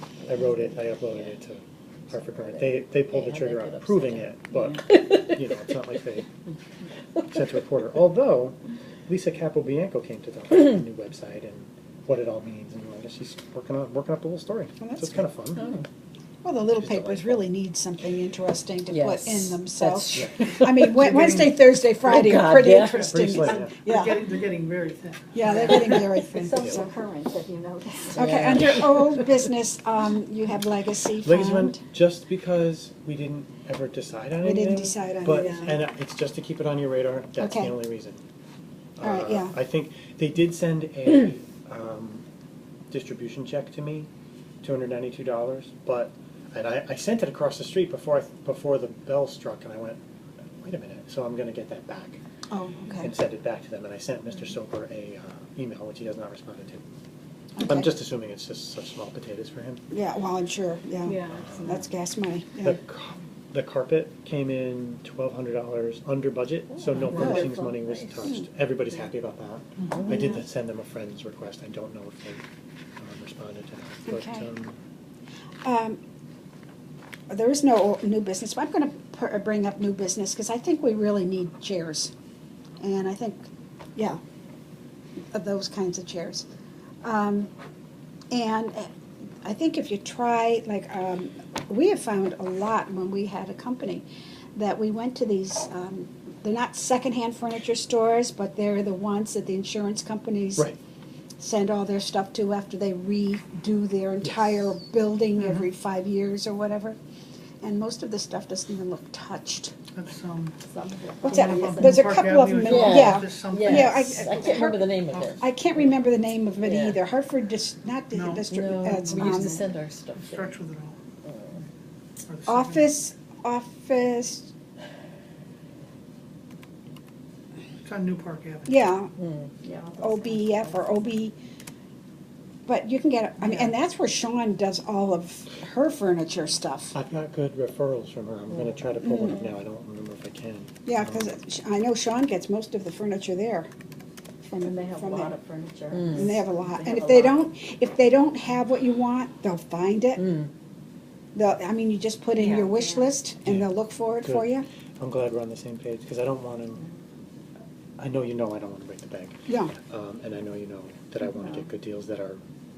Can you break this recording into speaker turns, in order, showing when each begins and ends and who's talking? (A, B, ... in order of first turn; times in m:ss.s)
0:00.2-0:06.3 A
0:02.4-0:06.0 B
0:04.5-0:04.8 C
0:07.2-0:07.6 B
0:07.3-0:08.6 A
0:09.1-0:15.6 A
0:14.8-0:15.3 D
0:15.6-0:15.8 B
0:16.4-0:24.2 D
0:16.8-0:17.5 A
0:18.9-0:21.0 B
0:20.9-0:21.6 E
0:22.0-0:23.3 B
0:23.0-0:23.8 A
0:23.6-0:26.5 E
0:25.3-0:26.9 D
0:26.3-0:28.3 C
0:26.6-0:26.8 A
0:28.1-0:31.8 D
0:28.2-0:29.5 B
0:31.2-0:38.2 A
0:34.4-0:35.8 D
0:35.3-0:35.8 C
0:37.4-0:37.8 D
0:39.0-0:42.2 A
0:39.0-0:39.5 D
0:42.9-0:44.1 A
0:44.6-0:50.0 A
0:50.6-0:52.2 A
0:52.5-0:53.1 D
0:52.9-0:56.8 A
0:57.6-0:58.0 D
0:57.6-0:59.9 A
0:59.9-1:02.8 D
1:01.0-1:01.9 C
1:01.3-1:01.8 A
1:02.6-1:12.4 A
1:07.0-1:07.7 C
1:07.1-1:07.6 B
1:07.1-1:07.6 D
1:09.8-1:10.1 E
1:10.1-1:10.4 D
1:13.0-1:14.8 A
1:14.0-1:14.5 D
1:15.6-1:16.0 D
1:17.3-1:22.1 D
1:22.8-1:24.2 D
1:25.3-1:26.4 D
1:27.0-1:27.5 D
1:28.3-1:28.9 D
1:29.4-1:40.7 D
1:41.4-1:47.0 D
1:44.2-1:44.6 A
1:47.6-1:49.7 D
1:50.0-1:50.6 E
1:50.7-1:52.2 C
1:51.2-1:55.4 E
1:51.2-1:54.8 D
1:52.6-1:55.4 B
1:55.4-1:59.6 D
1:56.6-1:57.0 B
1:58.1-1:59.6 E
1:58.5-2:00.5 B
2:00.1-2:00.9 E
2:01.2-2:01.6 B
2:02.3-2:02.9 E
2:02.5-2:04.5 D
2:07.8-2:08.8 E
2:08.7-2:09.1 D
2:09.2-2:09.5 B
2:09.6-2:10.9 C
2:10.0-2:11.3 D
2:12.6-2:16.9 D
2:13.4-2:13.7 E
2:16.9-2:21.3 A
2:20.8-2:23.7 D
2:24.4-2:25.3 D
2:24.6-2:27.4 C
2:25.9-2:26.4 B
2:26.1-2:30.4 D
2:30.2-2:30.5 B
2:31.3-2:34.6 D
2:33.4-2:33.7 A
2:34.2-2:36.8 A
2:38.0-2:42.4 A
2:39.5-2:39.7 D